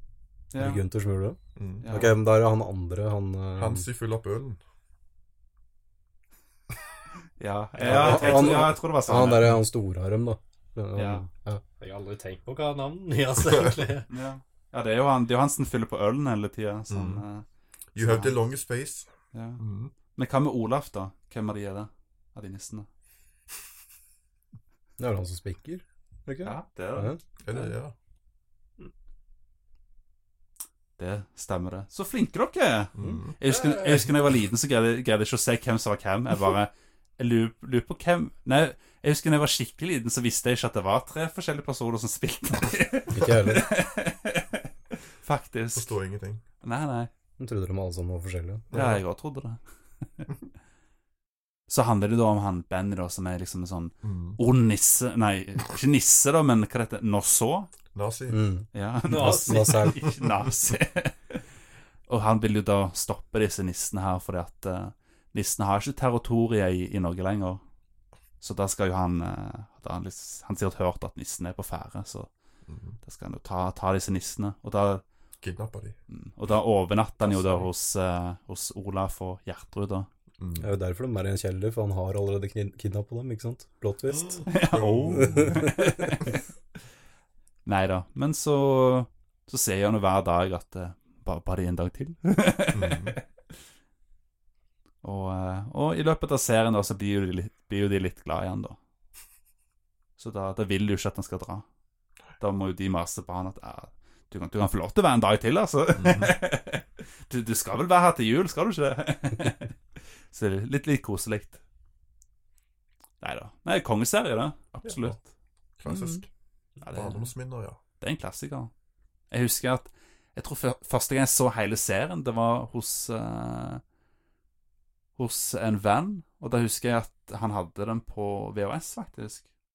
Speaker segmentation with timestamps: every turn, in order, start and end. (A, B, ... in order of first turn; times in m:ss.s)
0:00.5-0:00.8 A
0:00.6-0:03.9 B
0:01.6-0:01.9 C
0:01.8-0:02.2 A
0:03.6-0:04.6 C
0:07.4-0:09.6 A
0:07.8-0:11.6 B
0:07.8-0:08.6 D
0:11.0-0:11.3 A
0:11.8-0:14.1 D
0:14.1-0:17.4 A
0:16.9-0:17.2 C
0:18.0-0:19.9 C
0:18.0-0:18.4 A
0:19.3-0:22.9 A
0:25.0-0:27.6 B
0:26.4-0:27.2 A
0:27.4-0:28.0 C
0:31.0-0:44.6 A
0:33.0-0:33.4 C
0:33.5-0:34.1 D
0:43.1-0:43.7 B
0:45.2-0:46.0 A
0:45.7-0:46.4 C
0:46.6-0:47.1 A
0:47.4-0:48.7 B
0:48.7-0:49.0 C
0:48.7-0:49.6 A
0:51.7-0:57.7 A
0:54.0-0:54.4 C
0:57.9-0:58.4 C
0:58.3-1:00.1 B
0:58.7-1:01.4 A
0:59.1-0:59.8 D
1:02.1-1:07.6 A
1:08.4-1:12.3 A
1:12.7-1:13.0 C
1:13.0-1:15.0 A
1:15.4-1:16.0 C
1:16.1-1:20.1 A
1:17.4-1:17.6 D
1:20.4-1:20.7 C
1:20.6-1:24.5 B
1:24.5-1:26.4 A
1:24.7-1:25.7 C
1:25.2-1:26.2 B
1:27.6-1:33.1 A
1:32.7-1:33.2 C
1:35.0-1:38.8 A
1:40.2-1:41.6 A
1:42.4-1:49.7 A
1:46.0-1:46.3 C
1:50.3-1:51.6 A
1:53.2-1:55.2 A
1:54.8-1:55.2 C
1:55.8-1:56.3 C
1:55.9-1:56.2 A
1:56.8-1:57.3 A
1:56.9-1:57.8 C
1:58.0-1:58.7 A
1:59.3-2:03.8 A
2:05.2-2:09.5 A